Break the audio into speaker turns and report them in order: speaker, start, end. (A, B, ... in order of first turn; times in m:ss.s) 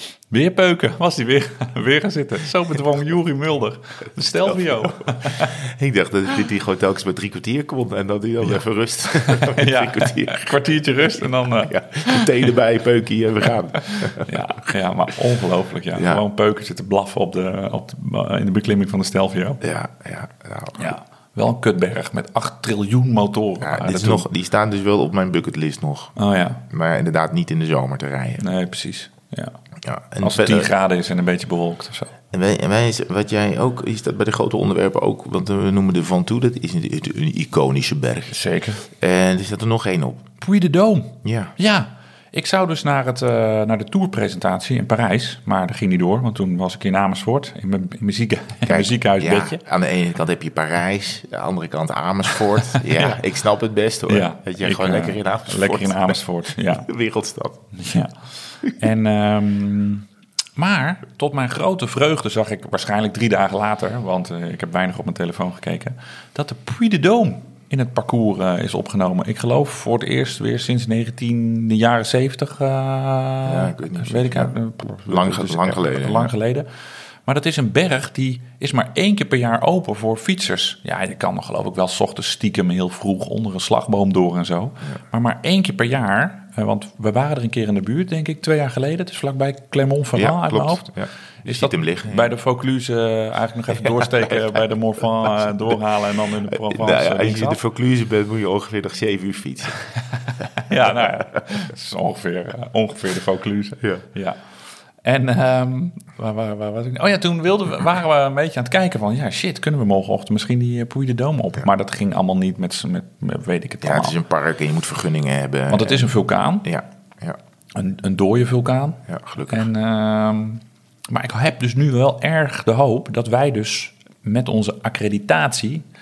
0:00.3-0:05.5 A
0:04.5-0:10.6 B
0:09.3-0:12.3 A
0:11.6-0:14.3 B
0:14.0-0:19.6 A
0:16.0-0:16.2 B
0:19.6-0:20.9 B
0:20.8-0:24.3 A
0:23.6-0:26.1 B
0:26.2-0:26.6 A
0:26.7-0:28.4 B
0:28.4-0:29.6 A
0:29.8-0:30.7 B
0:30.2-0:32.1 A
0:32.3-0:38.3 B
0:38.3-0:38.8 A
0:38.9-0:40.3 B
0:40.4-0:49.6 A
0:41.2-0:41.5 B
0:48.7-0:57.6 B
0:52.8-0:53.2 A
0:54.1-0:56.9 A
0:57.7-1:00.1 A
1:00.6-1:16.7 A
1:13.4-1:14.5 B
1:15.0-1:16.3 B
1:17.3-1:30.9 A
1:30.2-1:32.3 B
1:31.4-1:37.6 A
1:33.7-1:34.6 B
1:35.4-1:35.8 B
1:36.5-1:39.8 B
1:40.6-1:44.4 A
1:40.8-1:41.2 B
1:45.0-1:54.2 A
1:53.8-1:57.4 B
1:55.7-1:56.7 A
1:57.8-2:05.8 A
1:59.1-1:59.7 B